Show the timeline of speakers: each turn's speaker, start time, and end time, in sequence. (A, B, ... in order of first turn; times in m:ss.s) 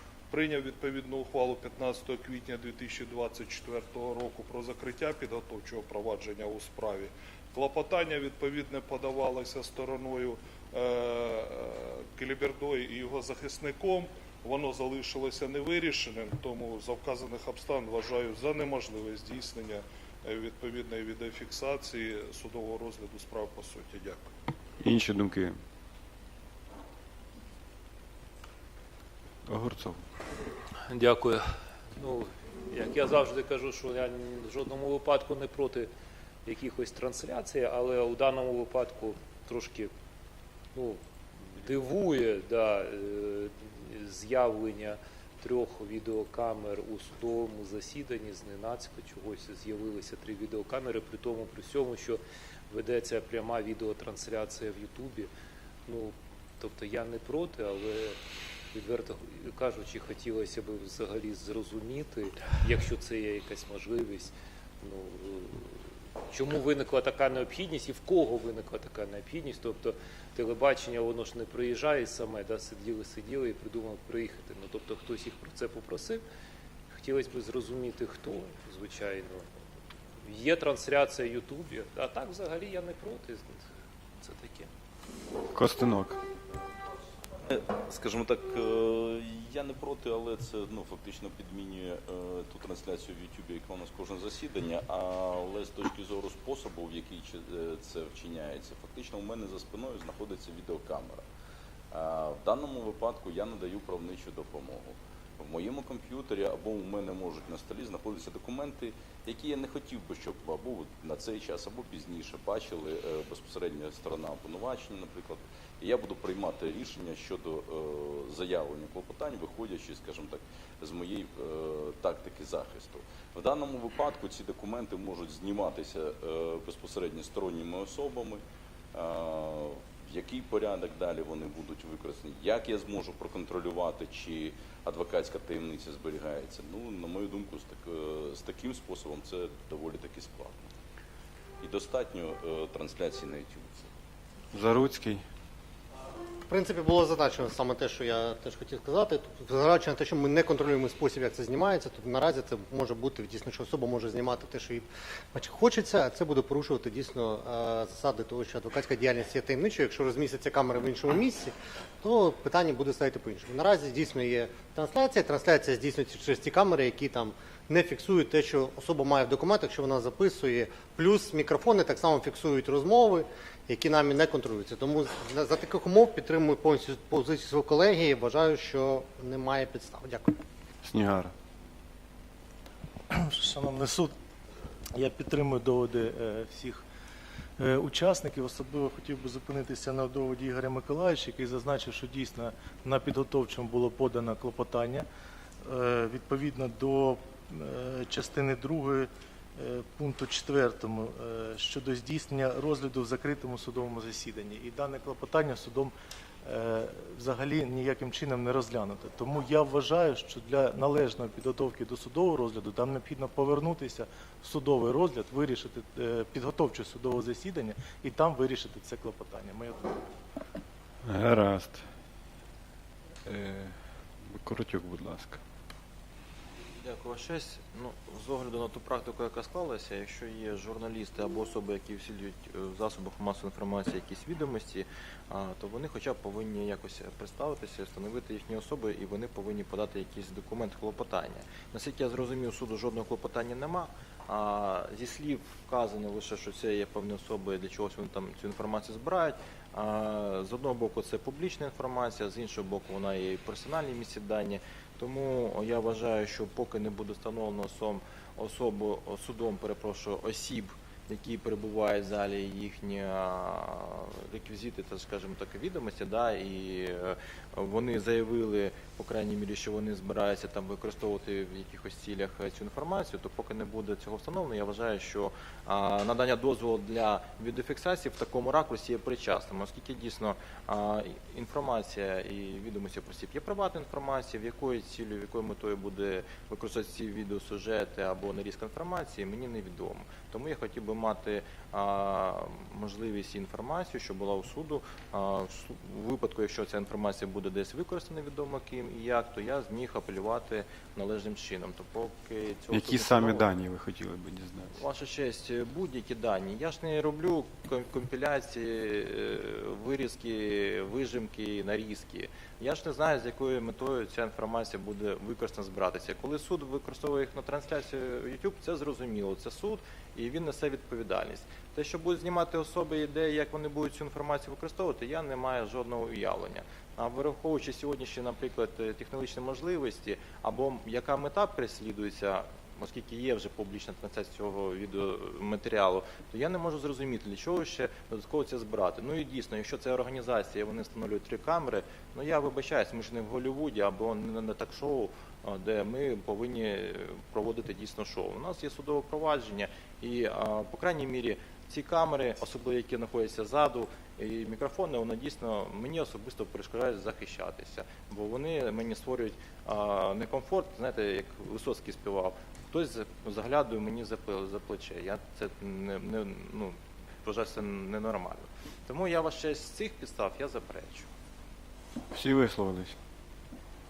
0:00.3-0:24.2 A
0:24.8-0:25.6 B
0:29.5-0:30.0 B
0:30.9-0:31.4 C
0:32.0-0:35.9 C
0:36.4-0:39.9 C
0:40.7-0:41.0 C
0:41.6-0:55.3 C
0:55.9-0:58.2 C
0:58.7-1:05.7 C
1:06.3-1:16.2 C
1:16.9-1:19.5 C
1:20.2-1:23.6 C
1:24.2-1:24.7 C
1:25.5-1:26.2 B
1:27.5-1:41.2 D
1:41.9-2:08.4 D
2:08.9-2:20.7 D
2:21.6-2:23.9 D
2:24.5-2:25.2 B
2:26.5-3:00.3 E
3:00.8-3:01.3 B
3:03.1-3:04.1 F
3:04.9-3:06.8 F
3:07.6-3:15.0 F
3:15.6-3:25.9 F
3:26.4-3:40.1 F
3:41.0-3:41.8 B
3:43.2-3:43.7 B
3:44.3-3:45.4 B
3:46.8-5:03.5 G
5:02.7-5:04.8 B
5:04.7-6:11.1 G
6:12.1-6:13.0 B